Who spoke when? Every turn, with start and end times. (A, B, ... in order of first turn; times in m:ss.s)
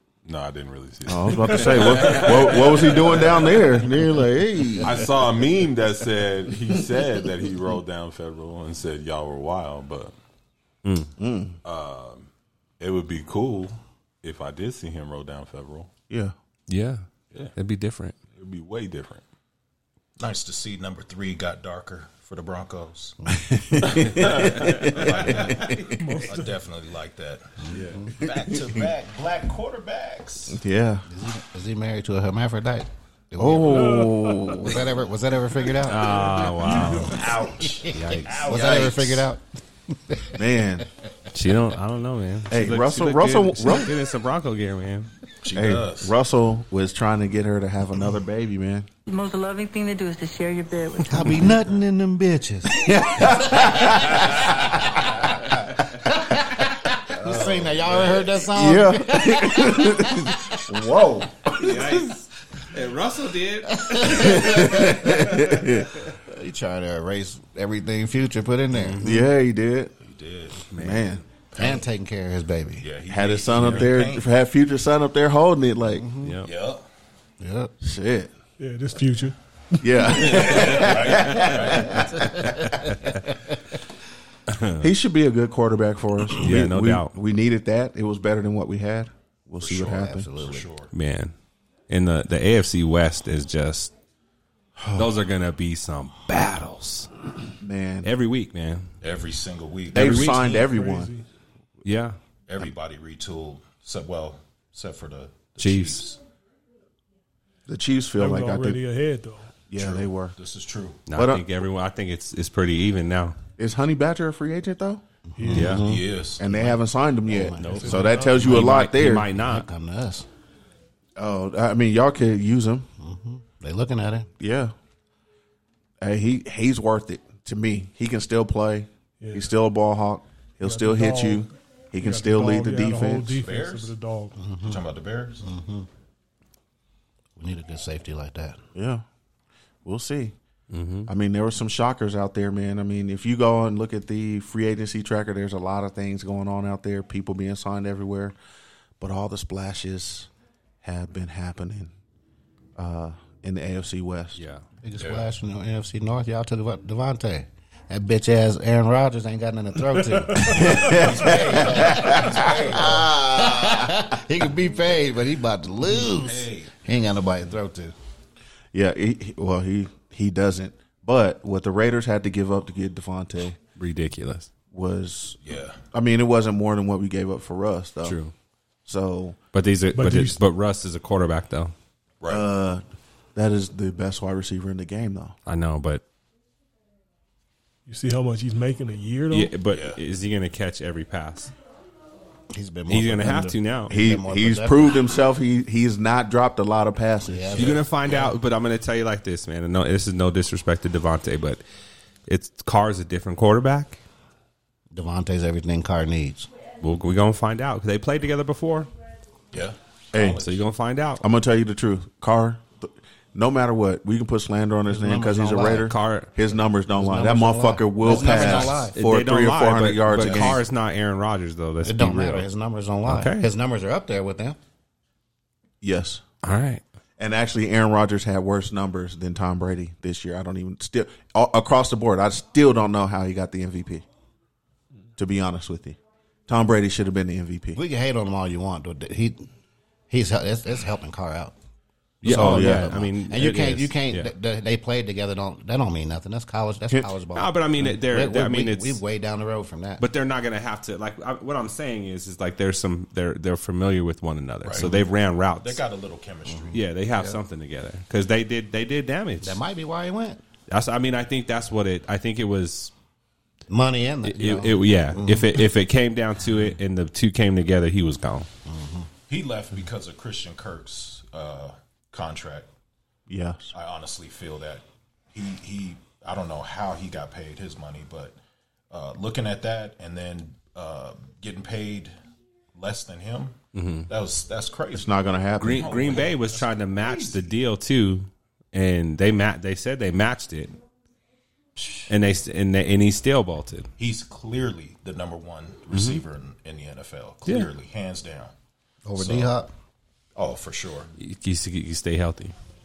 0:00.3-0:03.9 A
0:01.1-0:05.0 B
0:04.8-0:10.1 A
0:10.8-0:11.1 C
0:11.2-0:11.6 B
0:11.6-0:12.3 A
0:12.8-0:15.9 A
0:16.1-0:16.4 B
0:16.7-0:18.2 C
0:18.3-0:19.2 A
0:20.2-0:23.2 D
0:23.2-0:23.5 E
0:23.4-0:26.3 B
0:24.0-0:27.6 D
0:24.4-0:24.8 A
0:25.9-0:26.5 F
0:27.6-0:28.1 E
0:28.1-0:30.6 D
0:30.5-0:31.0 B
0:31.1-0:34.0 E
0:33.4-0:34.9 B
0:33.6-0:34.5 F
0:34.6-0:36.2 E
0:35.8-0:37.2 C
0:36.6-0:39.3 D
0:36.7-0:37.0 F
0:37.9-0:40.4 E
0:40.3-0:40.9 B
0:41.3-0:45.1 C
0:42.5-0:44.0 B
0:45.4-0:46.1 D
0:45.5-0:48.9 B
0:49.1-0:51.2 G
0:51.1-0:53.9 E
0:52.7-0:55.1 B
0:56.0-1:00.6 E
0:57.4-0:57.9 A
0:58.5-1:01.9 B
1:01.5-1:04.9 C
1:03.7-1:05.5 E
1:04.1-1:06.0 B
1:06.1-1:09.3 E
1:08.7-1:09.2 C
1:09.0-1:09.9 B
1:10.0-1:10.7 D
1:10.7-1:11.1 C
1:10.8-1:11.2 B
1:11.6-1:12.8 E
1:11.6-1:11.8 D
1:12.8-1:14.3 D
1:13.1-1:16.1 B
1:15.9-1:16.4 E
1:16.2-1:16.5 C
1:16.4-1:16.9 D
1:17.4-1:17.7 E
1:17.8-1:18.3 B
1:18.6-1:19.3 F
1:19.8-1:23.0 B
1:19.8-1:20.3 F
1:20.2-1:22.2 D
1:24.5-1:24.9 C
1:24.8-1:30.3 B
1:26.4-1:27.1 C
1:29.6-1:30.9 D
1:30.0-1:30.7 E
1:30.9-1:31.3 C
1:31.9-1:33.9 C
1:34.8-1:35.2 B
1:35.0-1:37.1 C
1:37.6-1:38.1 B
1:38.0-1:38.9 C
1:39.0-1:40.2 D
1:39.9-1:41.1 B
1:39.9-1:40.6 C
1:40.1-1:41.2 F
1:41.8-1:42.2 C
1:42.5-1:46.2 D
1:45.6-1:46.0 C
1:47.7-1:48.8 B
1:48.2-1:49.6 F
1:49.7-1:50.4 B
1:49.8-1:51.0 D
1:51.1-1:53.4 C
1:51.1-1:51.5 B
1:53.6-1:59.3 B
1:55.4-1:55.7 E
1:55.4-1:55.8 F
1:55.5-1:55.9 C
1:55.8-1:56.7 D
1:57.3-1:58.8 E
1:57.6-1:59.7 C
1:57.6-1:58.5 F
1:59.3-2:00.3 E
2:01.2-2:02.9 B
2:03.0-2:04.3 E
2:04.4-2:04.7 B
2:06.0-2:13.4 B
2:09.2-2:09.5 F
2:10.6-2:14.4 F
2:13.4-2:14.0 D
2:14.4-2:14.8 E
2:14.6-2:15.4 D
2:15.4-2:15.9 E
2:17.4-2:18.6 E
2:18.8-2:19.1 B
2:19.8-2:20.4 B
2:20.7-2:21.1 C
2:21.1-2:28.4 B
2:29.0-2:30.3 B
2:30.8-2:31.9 B
2:32.8-2:34.4 B
2:34.4-2:34.6 C
2:34.8-2:48.0 E
2:35.0-2:35.3 D
2:40.4-2:41.0 F
2:40.5-2:43.6 B
2:40.6-2:43.2 D
2:45.9-2:46.7 D
2:48.7-2:53.6 B
2:53.8-2:54.5 C
2:54.7-2:55.4 B
2:55.4-2:55.8 D
2:55.9-2:58.2 B
2:58.0-2:58.3 C
2:58.9-2:59.4 B
2:59.5-3:01.7 C
2:59.9-3:00.4 F
3:02.2-3:02.5 D
3:02.3-3:02.8 B
3:03.4-3:05.4 B
3:05.5-3:06.0 C
3:07.9-3:09.6 F
3:09.3-3:11.5 C
3:09.7-3:10.0 D
3:12.5-3:15.0 E
3:12.9-3:13.9 C
3:13.9-3:17.8 B
3:17.2-3:17.8 E
3:17.5-3:21.6 C
3:18.0-3:18.3 D
3:22.3-3:24.0 C
3:24.9-3:26.5 E
3:26.8-3:28.9 C
3:29.5-3:30.7 D
3:30.1-3:30.4 B
3:30.3-3:31.2 C
3:31.2-3:40.6 B
3:34.9-3:35.9 E
3:35.7-3:36.3 C
3:36.9-3:38.9 E
3:38.1-3:42.5 C
3:41.8-3:44.6 E
3:43.1-3:43.5 C
3:45.8-3:46.2 B
3:46.4-3:46.8 C
3:47.2-3:54.0 B
3:55.2-3:57.8 B
3:57.8-3:59.5 E
4:00.1-4:01.6 E
4:02.2-4:04.3 C
4:02.2-4:02.9 B
4:02.2-4:10.0 E
4:07.3-4:09.0 C
4:10.0-4:15.8 C
4:14.6-4:14.9 D
4:15.6-4:16.8 D
4:16.5-4:17.4 E
4:16.7-4:19.6 C
4:19.4-4:20.4 E
4:20.7-4:22.9 C
4:23.7-4:25.5 E
4:24.3-4:28.5 C
4:28.7-4:29.1 E
4:29.3-4:32.7 D
4:33.3-4:33.7 B
4:33.7-4:38.4 D
4:38.9-4:42.1 D
4:42.8-4:43.6 D
4:43.8-4:44.1 C
4:44.1-4:45.1 D
4:44.9-4:46.2 B
4:45.6-4:50.8 C
4:45.6-4:47.6 D
4:51.8-4:52.1 D
4:52.1-4:53.9 C
4:54.0-4:58.5 D
4:55.9-4:56.2 C
4:59.1-4:59.7 E
4:59.2-4:59.5 D
5:00.4-5:01.1 D
5:01.2-5:02.5 C